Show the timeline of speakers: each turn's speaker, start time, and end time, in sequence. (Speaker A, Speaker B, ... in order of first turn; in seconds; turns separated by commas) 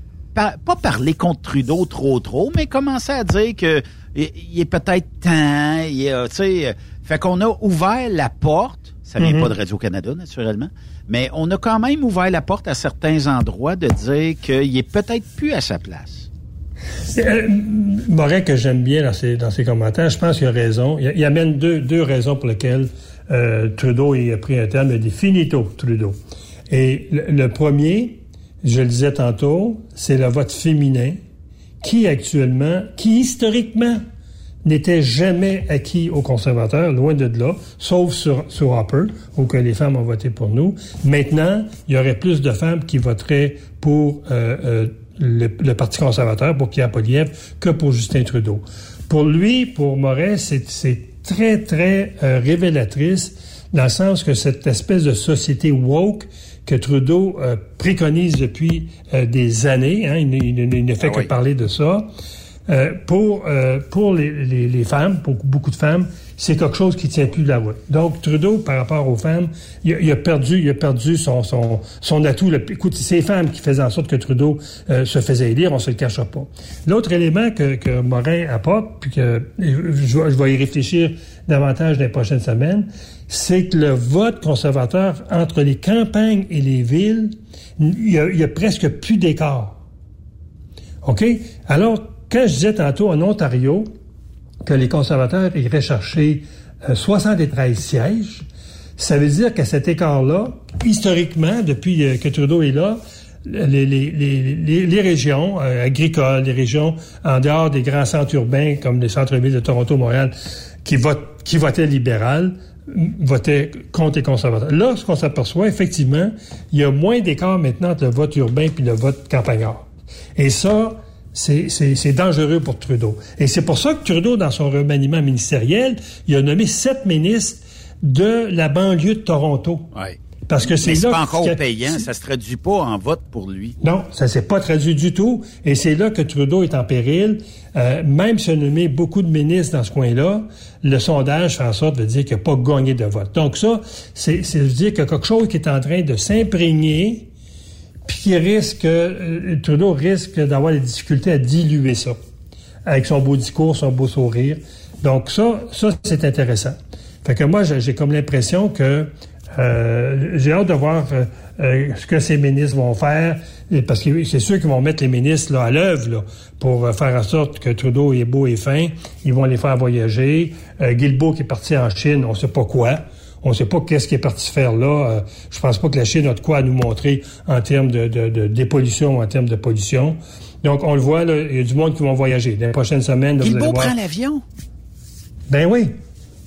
Speaker A: 0.3-16.3, Speaker B: 9.2-9.5, Speaker B: 17.1-26.2, Speaker B: 26.7-31.2, Speaker B: 31.8-34.0, Speaker B: 34.6-62.1, Speaker A: 61.0-61.3, Speaker B: 62.7-89.8, Speaker B: 91.0-93.9, Speaker B: 94.6-98.5, Speaker B: 99.0-110.3, Speaker B: 110.8-119.8, Speaker B: 120.4-129.9, Speaker A: 129.9-133.8, Speaker B: 130.5-132.1, Speaker B: 133.8-147.3, Speaker B: 148.1-152.2, Speaker B: 152.9-183.9, Speaker A: 183.4-184.4, Speaker B: 185.5-186.0